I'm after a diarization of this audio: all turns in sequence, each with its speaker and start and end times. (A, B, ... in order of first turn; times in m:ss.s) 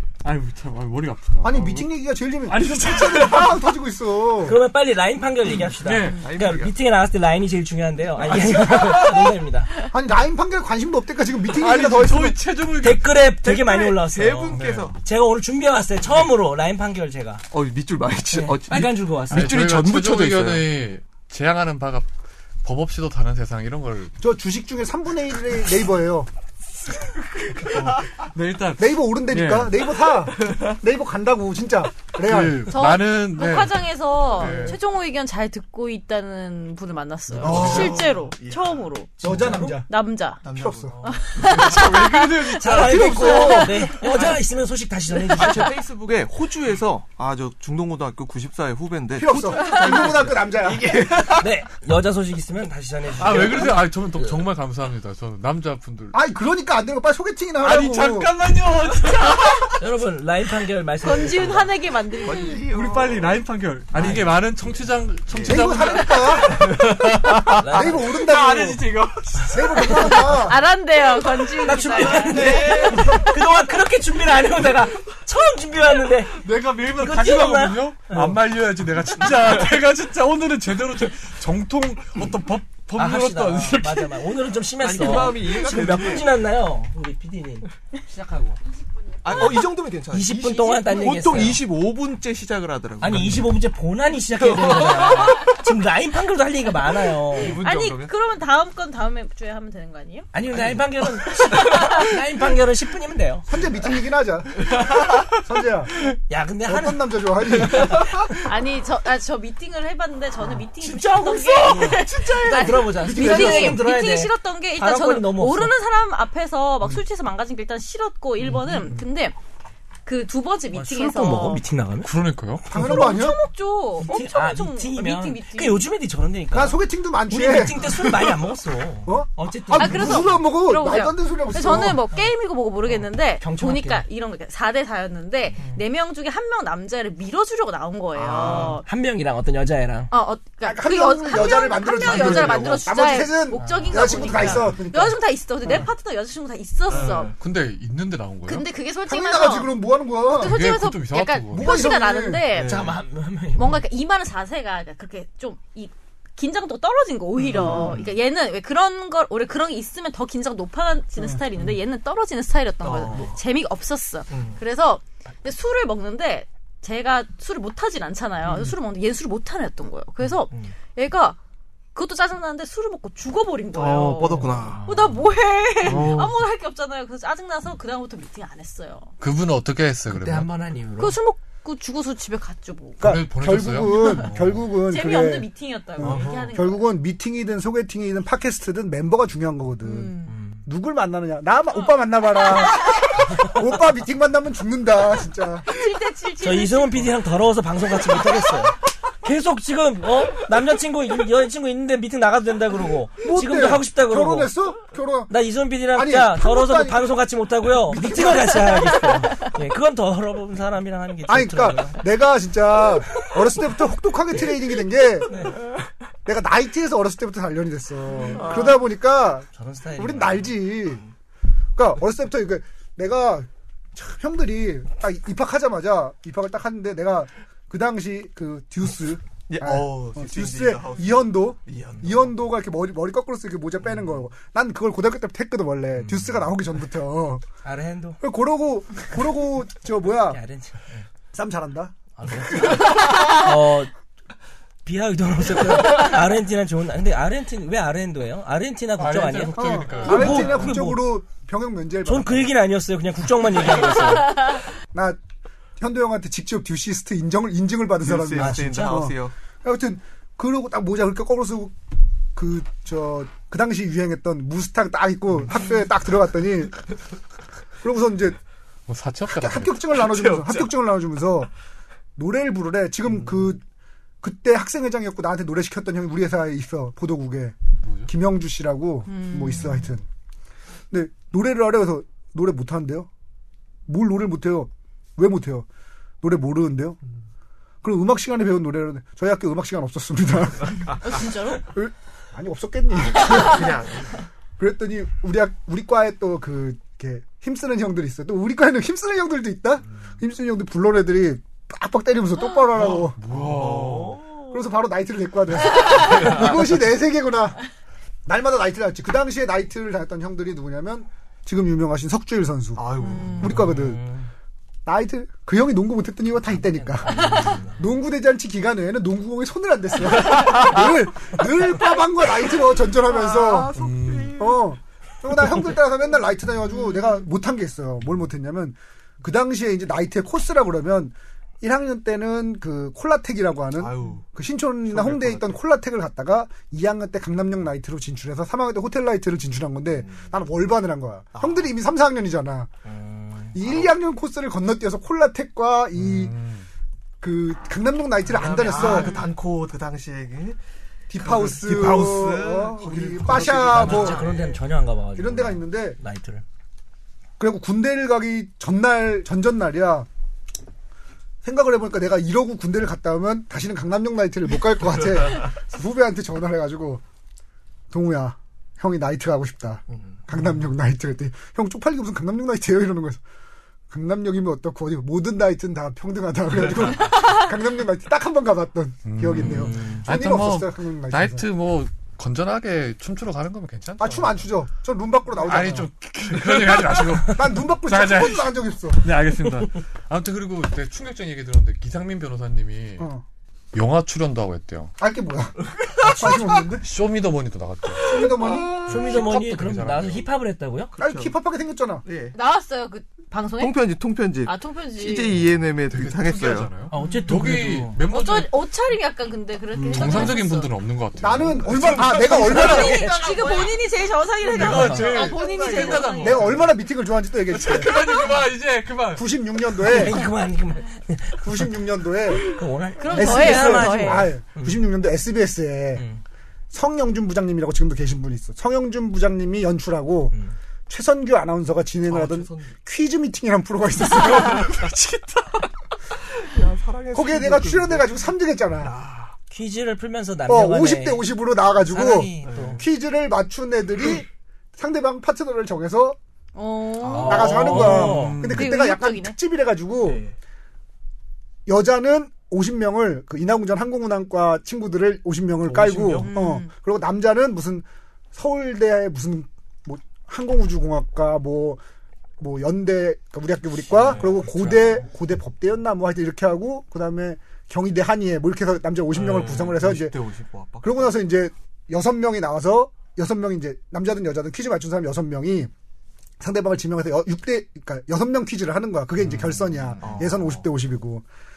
0:00.2-0:01.8 A
0:01.4-0:04.6 B
0:02.5-0:03.5 A
0:04.4-0:09.7 C
0:05.8-0:06.3 A
0:06.2-0:06.7 D
0:08.4-0:09.2 A
0:09.9-0:12.4 B
0:11.5-0:13.2 A
0:12.8-0:17.4 C
0:13.4-0:15.0 D
0:14.5-0:14.9 A
0:17.5-0:20.7 D
0:18.3-0:19.6 C
0:19.3-0:22.1 A
0:22.6-0:24.1 A
0:24.2-0:26.3 B
0:27.5-0:29.8 A
0:28.8-0:32.8 B
0:32.2-0:34.8 A
0:32.7-0:39.1 E
0:37.4-0:38.1 A
0:37.4-0:38.9 D
0:37.4-0:37.9 B
0:39.2-0:39.8 C
0:39.2-0:39.9 B
0:39.8-0:40.4 E
0:40.4-0:41.8 D
0:40.6-0:40.9 B
0:40.9-0:43.4 A
0:41.0-0:42.5 E
0:42.5-0:45.8 C
0:42.7-0:43.9 B
0:43.2-0:43.8 E
0:45.2-0:51.5 D
0:49.2-0:51.0 B
0:51.3-0:54.4 C
0:53.2-0:56.2 A
0:56.1-0:58.3 B
0:57.6-0:59.8 A
0:59.7-1:01.7 C
1:01.0-1:02.6 E
1:02.2-1:03.4 D
1:02.7-1:10.2 A
1:04.0-1:04.3 C
1:04.0-1:04.3 D
1:05.3-1:05.9 D
1:05.4-1:06.7 B
1:07.5-1:08.1 C
1:07.6-1:08.9 B
1:09.4-1:10.6 B
1:09.9-1:13.2 E
1:11.6-1:16.4 C
1:11.7-1:13.3 D
1:16.4-1:24.3 A
1:16.9-1:18.4 C
1:23.0-1:28.6 C
1:24.8-1:26.4 D
1:29.2-1:33.5 D
1:29.3-1:31.6 C
1:33.0-1:37.6 C
1:34.4-1:35.4 D
1:37.3-1:38.1 D
1:37.5-1:40.3 E
1:40.3-1:43.5 C
1:41.5-1:42.0 E
1:43.5-1:45.9 B
1:44.8-1:45.2 D
1:46.3-1:47.0 C
1:46.7-1:48.3 B
1:47.7-1:48.3 D
1:48.3-1:59.3 E
1:50.8-1:55.7 C
1:51.0-1:53.0 D
1:52.9-1:53.8 B
2:00.0-2:01.6 E
2:00.7-2:02.2 C
2:02.0-2:02.6 A
2:02.7-2:03.1 C
2:02.7-2:03.4 B
2:02.7-2:05.9 E
2:04.0-2:10.3 C
2:06.5-2:08.0 B
2:07.9-2:08.3 D
2:09.0-2:12.0 B
2:09.7-2:18.8 E
2:13.4-2:14.0 C
2:18.2-2:20.1 C
2:18.3-2:18.8 D
2:20.1-2:27.3 E
2:20.6-2:25.9 B
2:22.1-2:22.5 C
2:23.5-2:24.4 A
2:24.3-2:24.7 C
2:26.9-2:27.4 D
2:26.9-2:28.7 A
2:28.5-2:32.8 E
2:29.0-2:30.6 B
2:30.4-2:31.7 A
2:31.5-2:32.5 B
2:32.5-2:33.0 D
2:32.6-2:33.8 C
2:33.6-2:51.4 E
2:37.4-2:38.1 D
2:37.5-2:38.0 B
2:41.2-2:41.4 B
2:42.8-2:43.4 D
2:44.3-2:44.6 D
2:51.9-2:59.1 E
2:53.7-2:54.9 D
2:55.8-2:56.4 A
2:59.2-3:00.5 A
3:00.1-3:01.2 C
3:01.0-3:03.0 E
3:03.0-3:04.7 A
3:03.0-3:10.1 B
3:03.8-3:06.8 E
3:06.0-3:06.6 D
3:09.8-3:10.4 E
3:10.3-3:10.6 C
3:10.6-3:15.7 B
3:12.4-3:13.0 E
3:15.6-3:17.1 E
3:16.4-3:24.5 C
3:23.2-3:25.3 B
3:25.3-3:32.0 C
3:25.9-3:27.1 B
3:27.8-3:29.2 B
3:31.3-3:35.4 B
3:35.3-3:35.6 C
3:36.2-3:41.0 B
3:38.3-3:38.8 D
3:39.5-3:40.6 C
3:41.8-3:57.4 B
3:49.5-3:52.3 D
3:57.6-3:58.2 C
3:58.2-4:00.4 B
4:00.3-4:01.0 C
4:01.3-4:01.9 B
4:02.2-4:03.9 C
4:02.4-4:03.3 B
4:04.8-4:11.1 C
4:09.0-4:10.7 A
4:09.5-4:12.5 B
4:12.0-4:14.4 C
4:14.9-4:15.2 B
4:15.8-4:21.8 B
4:18.0-4:19.3 D
4:18.3-4:19.0 C
4:22.3-4:26.8 B
4:27.8-4:28.4 B
4:28.9-4:29.8 A
4:29.3-4:31.5 B
4:30.0-4:30.7 D
4:32.2-4:33.6 B
4:34.2-4:40.0 B
4:37.8-4:38.1 A
4:39.1-4:39.9 E
4:40.9-4:43.1 B
4:43.9-4:45.6 B
4:46.2-4:47.0 B
4:47.8-4:53.7 B
4:50.9-4:51.6 E
4:53.2-4:54.2 D
4:54.6-5:03.2 B
5:02.8-5:04.2 A
5:03.3-5:04.4 D
5:04.5-5:07.6 B
5:06.1-5:06.4 D
5:08.2-5:14.0 B
5:12.8-5:13.6 D
5:13.0-5:13.5 E
5:13.5-5:13.8 A
5:13.6-5:14.2 C
5:14.8-5:23.8 B
5:16.7-5:17.7 C
5:17.2-5:17.6 A
5:23.3-5:24.4 D
5:23.4-5:23.7 E
5:23.7-5:24.4 A
5:24.3-5:42.7 B
5:26.7-5:27.2 E
5:33.7-5:34.2 D
5:34.9-5:35.6 D
5:40.0-5:40.3 D
5:41.3-5:41.6 D
5:43.5-5:46.3 B
5:43.6-5:43.9 D
5:45.9-5:46.6 A
5:47.2-5:49.2 B
5:48.3-5:50.6 D
5:48.8-5:49.3 E
5:51.1-5:54.2 B
5:51.2-5:54.6 D
5:53.6-5:56.4 C
5:55.2-5:56.0 B
5:57.4-6:00.1 B
6:01.4-6:07.0 B
6:07.9-6:13.2 B
6:09.9-6:10.2 D
6:13.9-6:21.4 B
6:19.0-6:24.4 A
6:19.4-6:20.0 C
6:24.0-6:25.9 B
6:25.4-6:33.1 A
6:27.2-6:29.0 B
6:33.0-6:33.2 B
6:33.7-6:34.9 A
6:35.0-6:36.8 B
6:36.0-6:36.3 C
6:36.8-6:40.3 A
6:38.0-6:38.9 D
6:38.0-6:38.8 B
6:38.8-6:40.9 C
6:40.9-6:41.3 D
6:41.0-6:42.0 B
6:42.0-6:42.4 D
6:42.3-6:43.8 E
6:43.6-6:46.7 D
6:44.4-6:45.3 E
6:45.9-6:48.5 A
6:46.9-6:48.0 C
6:46.9-6:47.3 E
6:48.1-6:50.7 E
6:49.7-6:50.4 C
6:49.9-6:52.2 A
6:51.2-6:53.1 B
6:52.0-6:53.8 D
6:52.1-6:53.2 C
6:52.3-6:56.6 E
6:54.4-6:56.7 A
6:54.5-6:55.1 C
6:55.2-6:56.1 D
6:56.2-6:58.1 B
6:57.5-6:59.2 A
6:59.1-7:00.2 B
6:59.8-7:04.8 C
7:01.4-7:02.5 B
7:03.0-7:04.3 E
7:03.1-7:06.0 B
7:05.9-7:06.2 C
7:06.7-7:10.3 B
7:10.9-7:14.7 B
7:12.0-7:12.7 D
7:14.1-7:15.6 A
7:16.4-7:18.2 D
7:17.1-7:18.9 B
7:18.8-7:19.3 D
7:19.5-7:21.3 C
7:20.5-7:26.2 B
7:21.9-7:22.8 C
7:22.4-7:22.8 D
7:26.5-7:29.4 E
7:27.1-7:27.4 D
7:27.1-7:28.5 C
7:27.1-7:30.2 B
7:27.4-7:28.7 A
7:30.0-7:30.3 D
7:31.6-7:41.8 B
7:35.6-7:36.3 D
7:36.3-7:36.7 E
7:42.4-7:50.2 B
7:43.9-7:44.5 D
7:49.1-7:51.1 D
7:50.8-7:55.7 B
7:56.4-8:01.2 B
7:59.3-8:00.7 D